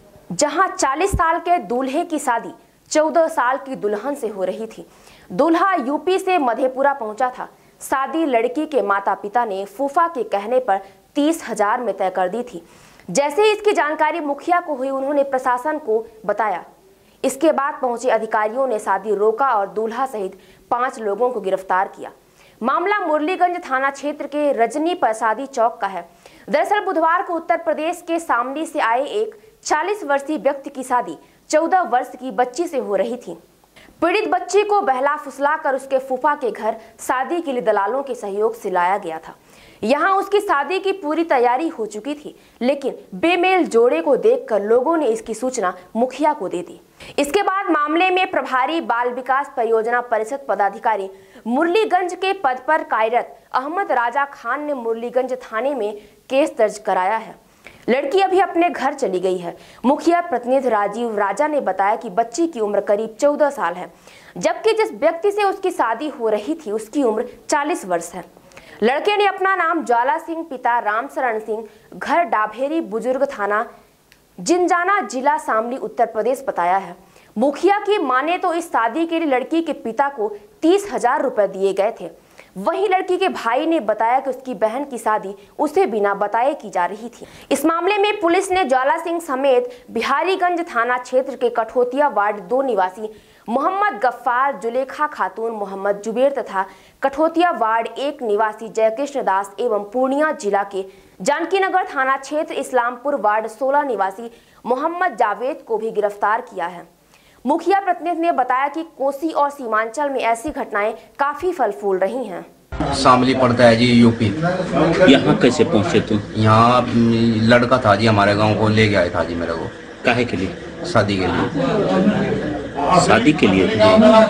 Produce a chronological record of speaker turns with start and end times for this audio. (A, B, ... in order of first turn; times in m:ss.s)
0:00.3-0:16.7 A
0:17.2-0:33.4 A
0:34.0-1:08.2 A
1:08.8-1:13.7 A
1:14.4-1:46.9 A
1:47.4-1:52.5 A
1:52.9-1:54.4 B
1:55.0-1:56.2 C
1:56.3-1:59.7 B
2:00.0-2:00.6 C
2:00.8-2:01.5 B
2:03.0-2:04.0 C